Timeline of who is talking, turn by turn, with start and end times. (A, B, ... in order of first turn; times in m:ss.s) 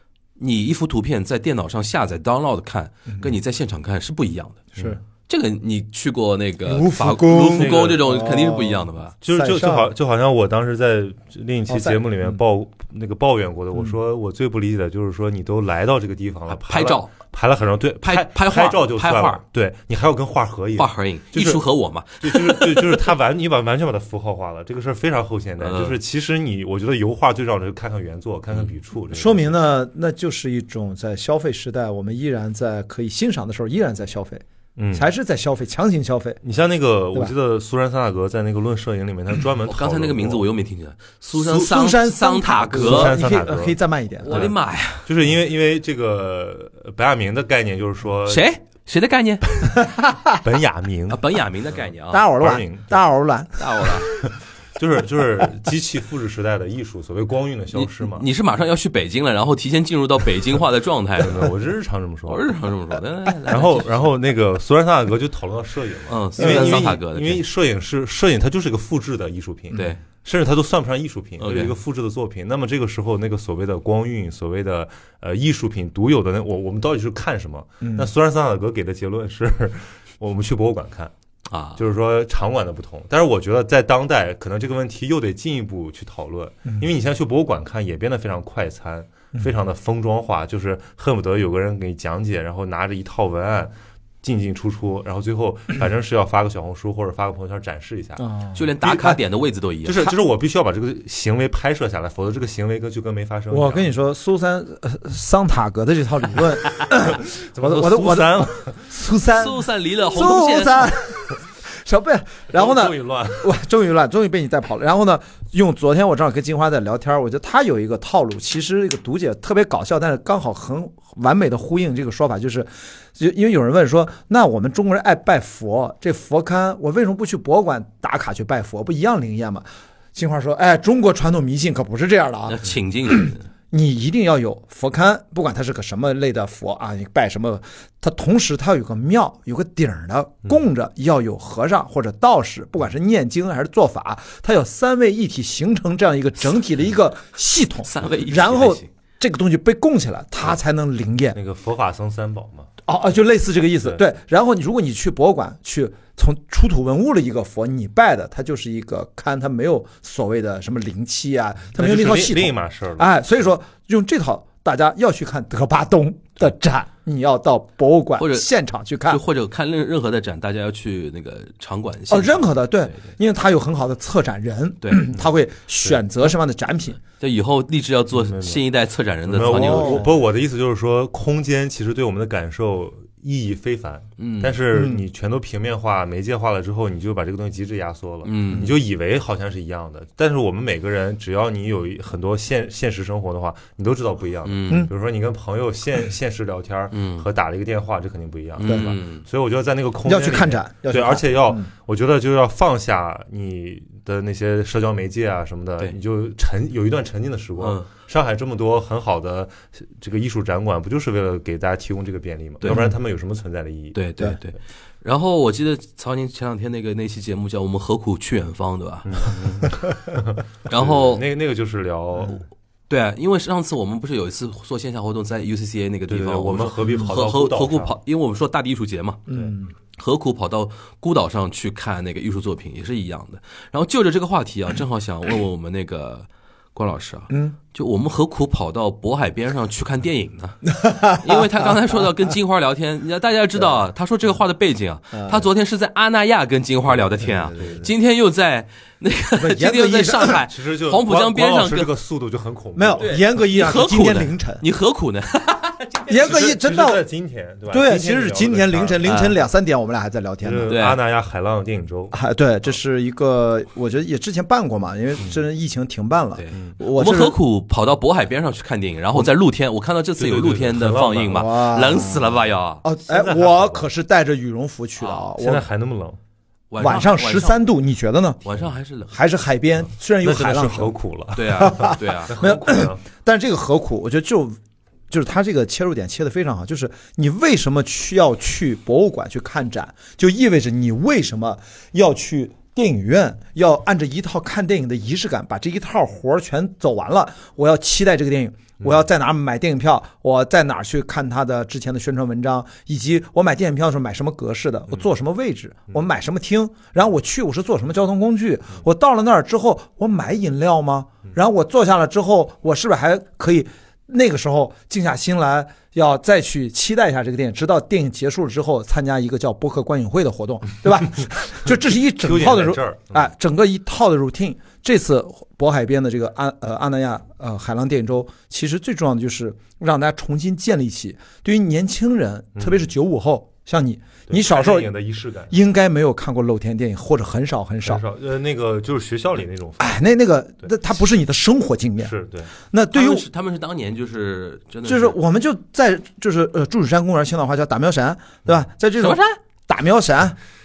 0:00.4-0:04.7 A
0:05.3-0:09.1 A
0:06.7-0:09.9 B
0:07.5-0:08.1 C
0:09.2-0:21.6 C
0:11.7-0:12.0 B
0:16.5-0:17.2 A
0:18.0-0:19.4 A
0:20.8-0:23.1 A
0:22.2-0:29.6 C
0:25.6-0:26.0 A
0:29.1-0:36.4 B
0:34.8-0:35.1 C
0:36.4-0:40.5 C
0:39.7-0:43.2 A
0:41.4-0:44.5 B
0:42.7-0:43.8 C
0:44.2-0:45.1 A
0:44.3-0:48.5 C
0:48.3-0:49.5 A
0:49.8-0:50.3 B
0:50.3-0:51.2 C
0:51.1-0:52.3 A
0:52.1-0:53.9 B
0:52.3-0:53.0 C
0:53.6-0:54.1 A
0:54.1-0:58.3 C
0:57.7-1:01.5 A
1:01.2-1:02.5 C
1:02.3-1:04.1 A
1:03.5-1:21.1 C
1:06.1-1:07.4 A
1:06.4-1:06.8 B
1:09.7-1:10.0 A
1:11.4-1:11.8 A
1:17.8-1:18.1 B
1:21.5-1:21.8 A
1:21.8-1:38.2 C
1:38.2-1:39.2 B
1:38.5-1:40.0 A
1:39.9-1:43.9 C
1:43.5-2:31.4 B
1:47.0-1:48.9 C
1:49.3-1:50.9 A
1:52.5-1:53.5 C
2:12.5-2:13.4 A
2:27.8-2:28.9 A
2:31.4-2:32.7 C
2:32.9-2:49.2 B
2:41.8-2:43.2 C
2:48.2-2:48.5 A
2:49.1-2:53.1 A
2:52.1-2:57.0 B
2:54.8-2:55.1 A
2:57.2-3:00.1 A
2:58.1-2:58.6 C
2:59.3-3:34.0 C
2:59.5-3:00.1 B
3:04.2-3:04.6 A
3:04.7-3:05.0 B
3:08.2-3:08.7 A
3:14.4-3:14.9 A
3:16.9-3:17.3 A
3:18.6-3:19.2 A
3:18.6-3:18.9 B
3:20.0-3:21.7 B
3:27.6-3:27.9 A
3:32.6-3:32.9 A
3:32.7-3:32.9 B
3:33.9-3:39.3 A
3:39.0-3:42.4 C
3:40.7-3:41.2 A
3:42.9-4:11.9 A
3:46.1-3:48.0 C
3:49.3-3:49.7 B
4:00.8-4:01.6 B
4:05.1-4:05.4 B
4:07.2-4:07.9 B
4:07.6-4:07.8 C
4:09.4-4:10.4 B
4:10.5-4:13.2 C
4:12.8-4:14.6 B
4:13.0-4:16.1 A
4:16.1-4:17.0 B
4:16.1-4:19.0 C
4:17.7-4:20.8 B
4:19.0-4:19.4 A
4:20.4-4:22.2 C
4:20.7-4:21.0 A
4:22.1-4:27.4 B
4:26.4-4:32.8 A
4:30.2-4:31.5 C
4:31.3-4:32.3 B
4:32.8-4:35.7 B
4:33.1-4:33.9 C
4:35.0-4:35.3 A
4:35.4-4:36.2 C
4:36.7-4:37.7 A
4:36.8-4:38.4 B
4:38.4-4:39.2 A
4:39.1-4:41.0 B
4:40.2-4:43.0 C
4:41.4-4:42.4 A
4:41.6-4:44.6 B
4:45.1-5:34.9 B
5:22.1-5:23.3 C
5:32.6-5:32.9 C
5:34.3-5:35.6 C
5:35.5-5:38.0 B
5:37.8-5:40.0 C
5:39.8-5:43.3 B
5:42.0-5:42.5 C
5:42.9-5:45.2 A
5:44.8-5:50.4 B
5:49.0-5:49.4 A